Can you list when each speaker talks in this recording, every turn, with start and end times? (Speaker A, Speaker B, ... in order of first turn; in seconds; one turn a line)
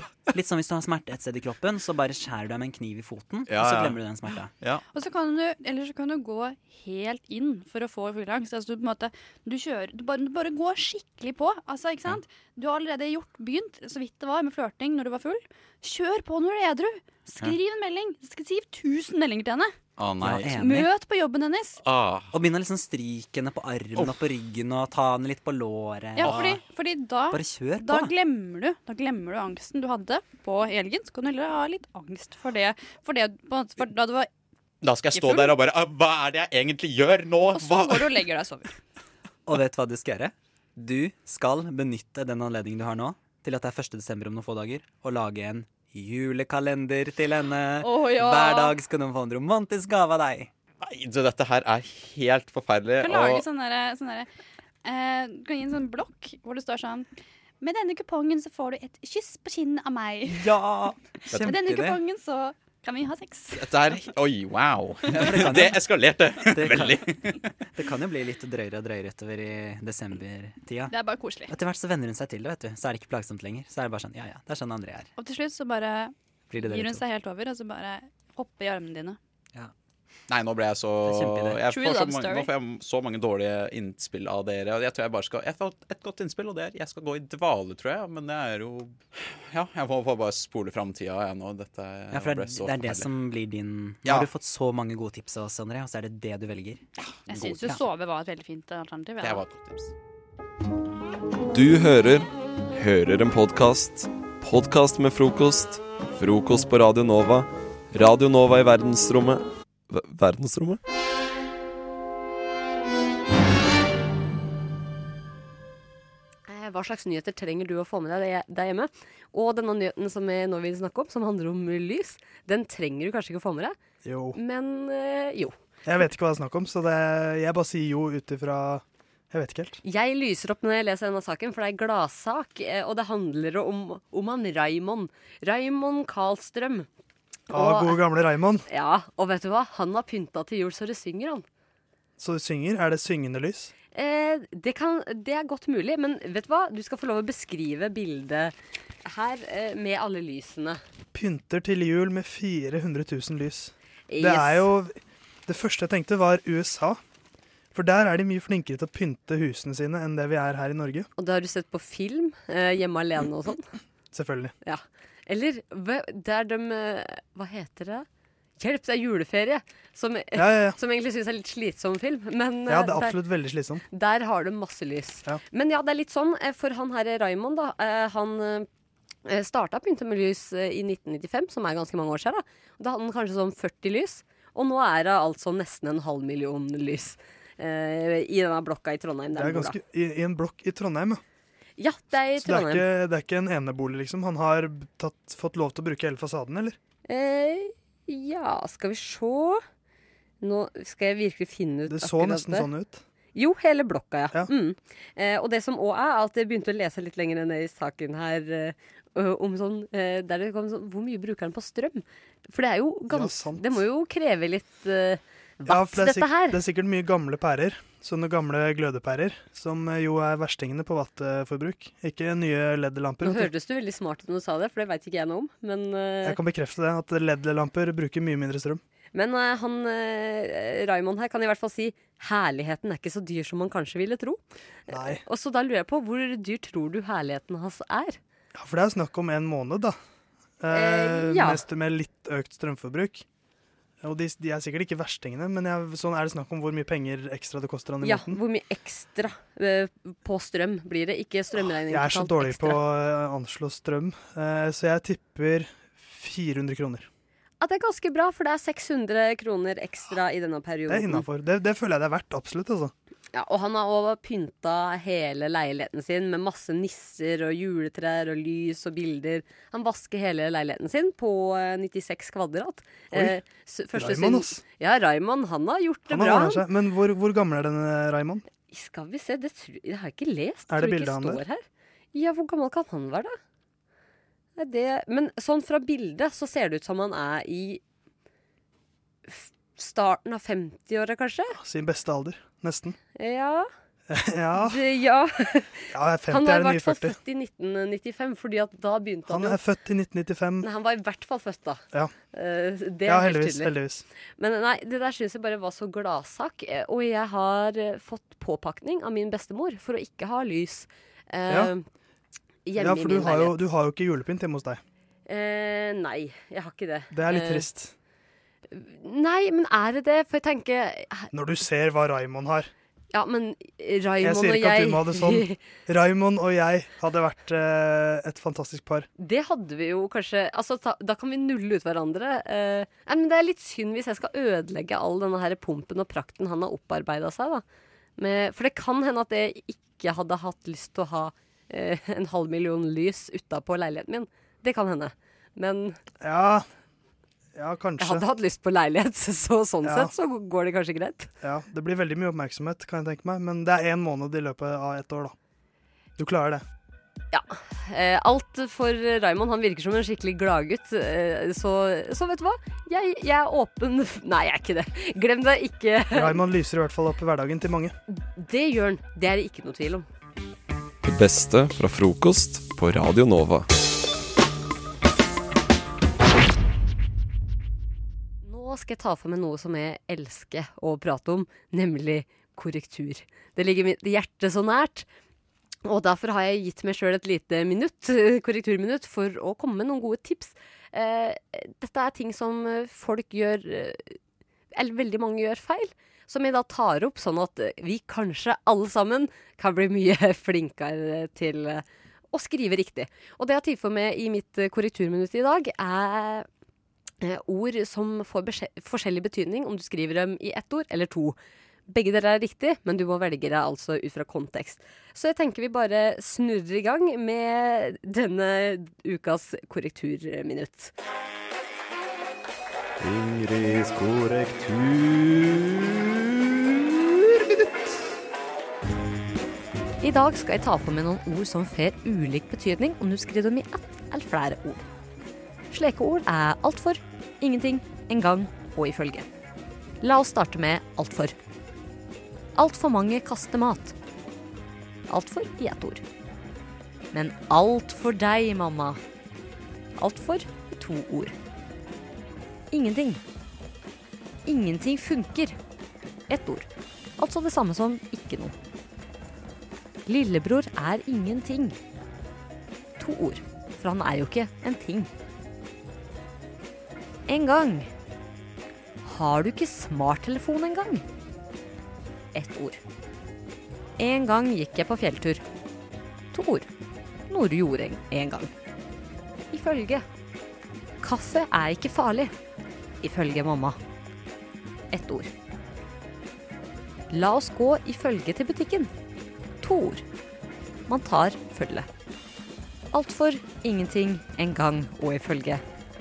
Speaker A: 0.3-4.5
Speaker B: 3.5-4.0
Speaker C: 4.9-19.7
Speaker B: 20.0-20.5
Speaker A: 20.2-20.9
Speaker C: 20.5-21.8
Speaker B: 21.8-22.3
Speaker A: 22.3-26.6
Speaker C: 26.2-34.3
Speaker A: 27.3-28.1
Speaker B: 34.8-38.1
Speaker C: 35.1-35.5
Speaker C: 37.5-38.7
Speaker A: 39.5-50.5
Speaker C: 47.8-48.8
Speaker B: 50.8-53.4
Speaker C: 53.0-54.3
Speaker C: 54.8-57.1
Speaker C: 57.6-60.5
Speaker A: 60.3-62.0
Speaker C: 61.4-63.7
Speaker B: 63.5-67.5
Speaker A: 65.1-65.8
Speaker A: 66.5-67.0
Speaker A: 67.7-70.9
Speaker C: 70.9-71.5
Speaker A: 71.5-75.1
Speaker C: 75.2-79.2
Speaker A: 76.5-77.0
Speaker B: 80.3-93.1
Speaker A: 81.0-81.6
Speaker C: 81.7-82.5
Speaker A: 92.1-96.8
Speaker B: 97.1-97.7
Speaker C: 97.3-99.4
Speaker B: 99.2-99.9
Speaker D: 101.5-110.8
Speaker E: 116.5-123.8
Speaker F: 124.0-124.4
Speaker E: 124.3-125.5
Speaker F: 125.8-129.8
Speaker E: 129.8-136.9
Speaker F: 137.5-138.6
Speaker E: 137.5-138.0
Speaker E: 138.7-141.4
Speaker F: 142.2-143.7
Speaker E: 143.9-148.5
Speaker E: 149.0-150.8
Speaker F: 151.1-154.9
Speaker E: 154.1-154.7
Speaker F: 155.5-157.0
Speaker F: 157.7-161.1
Speaker E: 161.2-163.7
Speaker F: 164.1-164.5
Speaker E: 164.6-168.0
Speaker E: 168.6-173.2
Speaker F: 170.3-170.8
Speaker F: 172.7-173.8
Speaker E: 173.9-178.7
Speaker E: 179.2-189.8
Speaker F: 189.3-191.2
Speaker E: 191.8-192.8
Speaker F: 192.3-196.8
Speaker E: 197.1-199.6
Speaker E: 200.4-202.7
Speaker F: 201.9-203.0
Speaker E: 203.3-216.6
Speaker F: 213.1-213.8
Speaker F: 215.7-223.5
Speaker E: 223.2-226.4
Speaker F: 226.2-228.8
Speaker E: 229.1-234.4
Speaker F: 234.9-235.2
Speaker E: 234.9-238.2
Speaker F: 238.5-240.0
Speaker F: 240.6-243.2
Speaker E: 240.7-241.6
Speaker F: 244.0-248.4
Speaker E: 248.0-252.8
Speaker F: 251.9-257.1
Speaker E: 257.6-261.3
Speaker F: 260.9-262.9
Speaker E: 263.3-276.6
Speaker F: 273.1-273.4
Speaker F: 273.9-274.6
Speaker F: 276.1-278.4
Speaker E: 278.7-281.6
Speaker F: 280.7-281.4
Speaker E: 282.1-283.4
Speaker E: 284.6-287.8
Speaker E: 289.3-291.6
Speaker F: 291.5-293.0
Speaker E: 293.1-293.7
Speaker F: 294.1-294.8
Speaker E: 294.6-299.6
Speaker F: 295.9-297.1
Speaker F: 299.3-300.6
Speaker E: 300.6-301.8
Speaker E: 302.3-303.7
Speaker F: 303.1-304.0
Speaker E: 304.4-311.8
Speaker E: 312.6-313.6
Speaker F: 312.8-314.8
Speaker E: 315.3-317.6
Speaker F: 317.1-317.9
Speaker E: 318.7-321.3
Speaker F: 321.3-322.7
Speaker E: 323.1-325.6
Speaker F: 324.2-329.1
Speaker E: 329.2-337.6
Speaker E: 338.2-346.0
Speaker F: 346.2-346.6
Speaker F: 347.6-348.2
Speaker E: 348.0-351.3
Speaker F: 349.8-350.1
Speaker F: 351.4-355.3
Speaker F: 356.2-356.6
Speaker E: 357.3-366.4
Speaker F: 366.1-367.9
Speaker E: 368.1-370.1
Speaker D: 371.0-373.7
Speaker E: 378.4-385.1
Speaker E: 385.8-394.2
Speaker E: 394.7-406.5
Speaker E: 407.2-411.4
Speaker E: 411.9-420.9
Speaker G: 423.0-427.6
Speaker E: 430.0-434.8
Speaker E: 435.7-439.3
Speaker E: 440.0-441.3
Speaker E: 442.6-443.9
Speaker E: 445.1-446.0
Speaker E: 447.1-449.0
Speaker E: 450.0-451.3
Speaker E: 452.7-453.2
Speaker E: 454.4-455.6
Speaker E: 456.3-456.7
Speaker E: 457.2-458.5
Speaker E: 460.1-461.8
Speaker E: 463.0-465.1
Speaker E: 467.3-467.9
Speaker E: 469.0-471.0
Speaker E: 472.3-472.8
Speaker E: 474.0-475.4
Speaker E: 476.3-476.7
Speaker E: 477.3-478.5
Speaker E: 479.5-480.0
Speaker E: 481.0-482.3
Speaker E: 483.0-483.8
Speaker E: 484.9-485.3
Speaker E: 487.1-488.9
Speaker E: 489.6-490.0
Speaker E: 490.9-491.9
Speaker E: 492.9-495.6